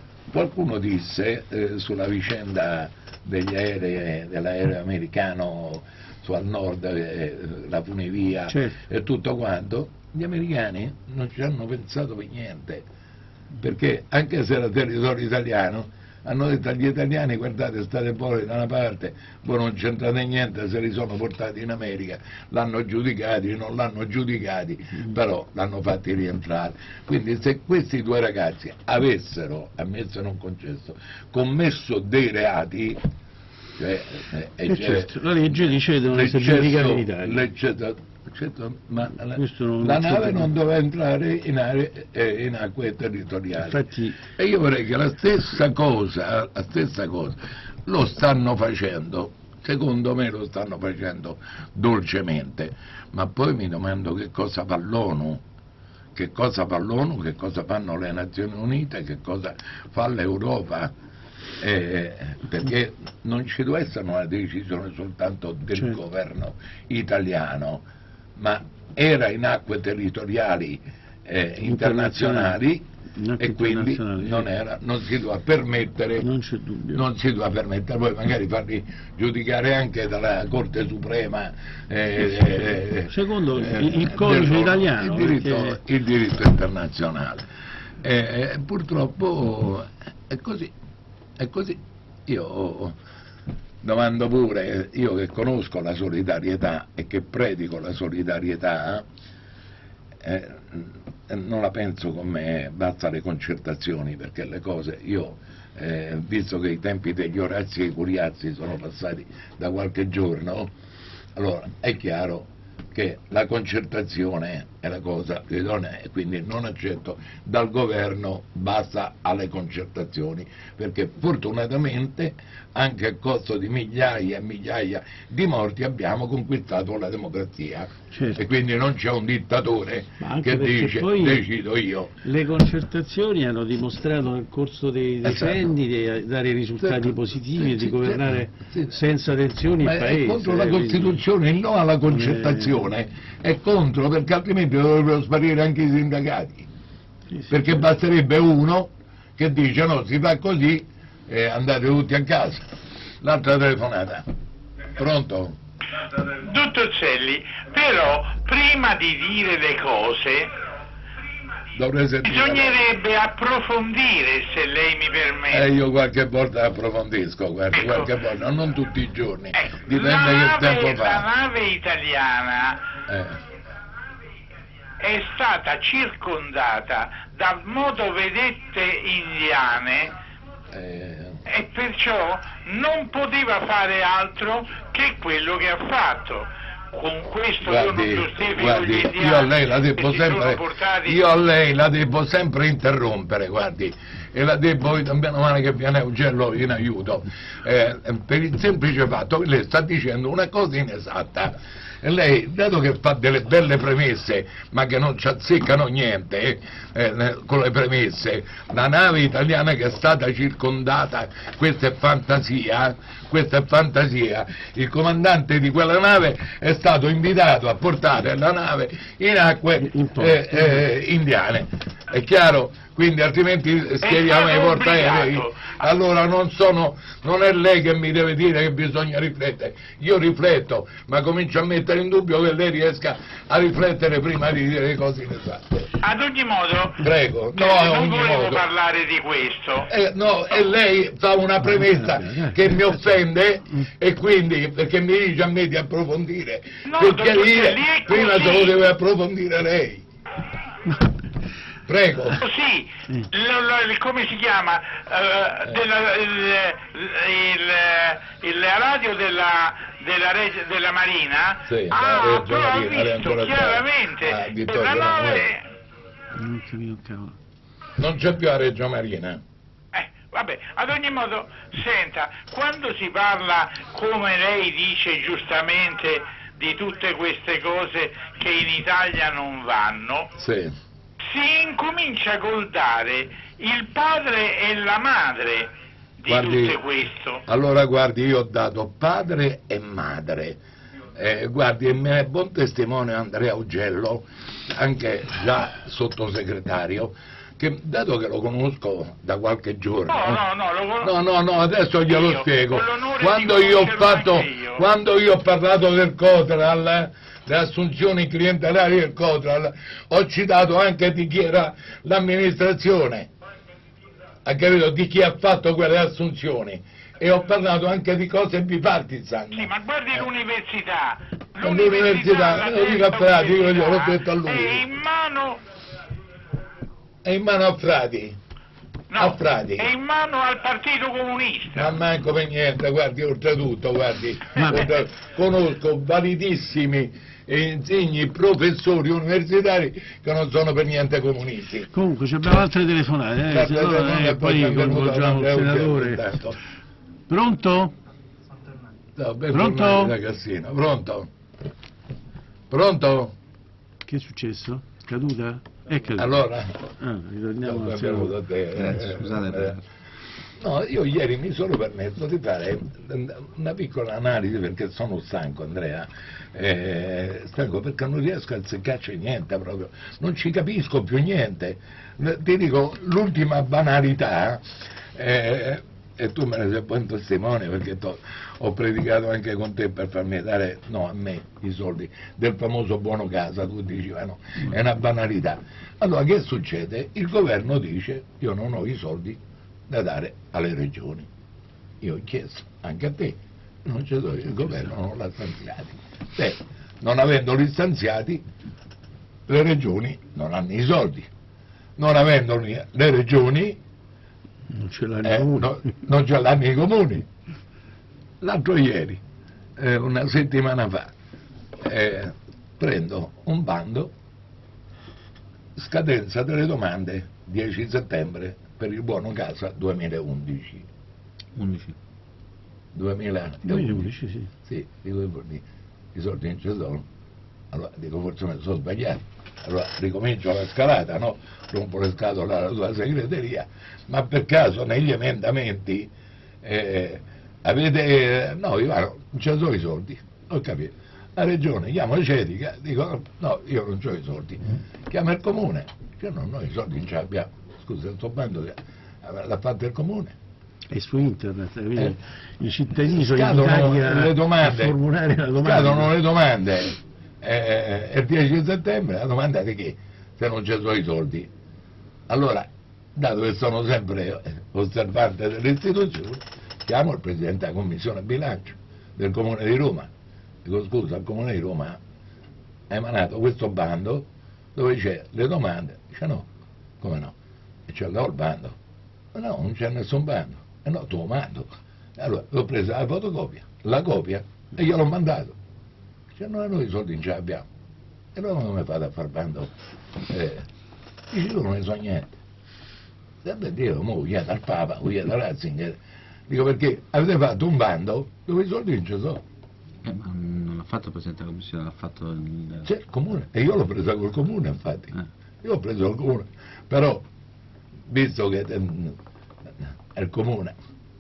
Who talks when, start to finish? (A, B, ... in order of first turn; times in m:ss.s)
0:00.3-0:12.8 A
0:08.5-0:08.8 B
0:13.6-0:33.0 A
0:33.8-0:43.8 A
0:34.7-0:37.4 B
0:39.3-0:40.5 B
0:43.6-0:44.2 B
0:44.4-0:55.4 A
0:56.2-1:00.9 A
1:01.6-1:07.8 A
1:05.8-1:06.0 B
1:08.4-1:12.9 A
1:11.6-1:12.6 B
1:13.2-1:14.5 B
1:13.4-1:16.3 A
1:16.2-1:17.0 B
1:16.9-1:27.5 A
1:22.5-1:25.8 B
1:28.0-1:30.7 A
1:31.4-1:33.0 A
1:33.8-1:39.1 A
1:40.2-1:50.7 A
1:51.4-2:12.2 A
2:08.1-2:08.4 B
2:10.2-2:11.5 B
2:12.2-2:21.2 B
2:15.2-2:15.6 A
2:16.8-2:19.0 A
2:19.8-2:26.7 A
2:22.1-2:22.8 B
2:27.3-2:27.8 B
2:27.5-2:32.7 A
2:33.2-2:34.3 A
2:35.0-2:35.6 A
2:36.4-2:40.5 C
2:41.8-2:42.8 A
2:42.2-2:45.7 C
2:45.5-2:51.3 A
2:47.8-2:48.0 C
2:49.6-2:52.8 C
2:53.1-2:53.4 A
2:55.0-3:00.2 C
3:00.7-3:01.4 A
3:01.5-3:11.2 C
3:07.6-3:55.9 A
3:39.8-3:40.8 B
3:44.0-3:45.8 C
3:56.0-3:57.0 C
3:57.0-3:58.6 A
3:57.6-3:59.9 C
3:59.8-4:10.0 A
4:01.6-4:03.0 B
4:06.9-4:08.8 C
4:11.9-4:12.4 A
4:12.4-4:25.7 C
4:21.6-4:25.5 A
4:26.3-4:27.4 B
4:28.0-4:29.4 A
4:29.9-4:40.3 C
4:40.4-4:40.8 A
4:41.3-4:47.4 C
4:46.3-4:46.8 A
4:47.5-4:50.6 A
4:51.2-5:00.4 A
5:00.1-5:01.1 C
5:01.0-5:13.3 A
5:02.1-5:04.8 C
5:14.4-5:20.2 A
5:19.5-5:25.6 C
5:21.6-5:24.8 A
5:27.2-5:28.4 A
5:29.1-5:32.0 C
5:29.2-5:29.9 A
5:31.7-5:41.9 A
5:34.6-5:34.9 B
5:41.9-5:46.2 B
5:43.5-5:46.6 A
5:47.3-5:47.9 B
5:49.2-5:51.3 A
5:49.6-5:50.0 B
5:52.7-5:53.4 A
5:54.1-5:56.3 B
5:56.2-5:56.8 A
5:57.0-5:58.3 B
5:57.6-5:59.8 A
5:58.8-5:59.8 D
6:00.6-6:31.3 A
6:32.0-6:38.4 A
6:39.5-6:41.3 A
6:42.0-6:43.8 A
6:44.7-6:45.9 B
6:45.2-6:47.3 A
6:48.4-6:49.2 A
6:49.8-6:51.1 A
6:51.8-6:54.1 A
6:55.8-7:00.9 A
7:01.6-7:02.0 D
7:02.9-7:04.1 A
7:03.6-7:04.5 B
7:04.6-7:07.1 A
7:07.7-7:16.1 A
7:16.6-7:30.4 A
7:30.9-7:36.1 B
7:33.1-7:35.0 A
7:35.6-7:41.5 A
7:42.3-7:50.1 A
7:50.6-7:52.0 A
7:52.9-7:56.5 A
7:57.0-7:57.4 A
7:57.9-7:58.8 A
7:59.3-8:05.6 A
8:06.3-8:07.7 A
8:08.4-8:09.7 A
8:10.3-8:10.7 A
8:11.3-8:12.4 A
8:13.4-8:19.4 A
8:20.0-8:22.9 D
8:22.8-8:27.3 A
8:28.1-8:29.2 A
8:30.1-8:30.8 A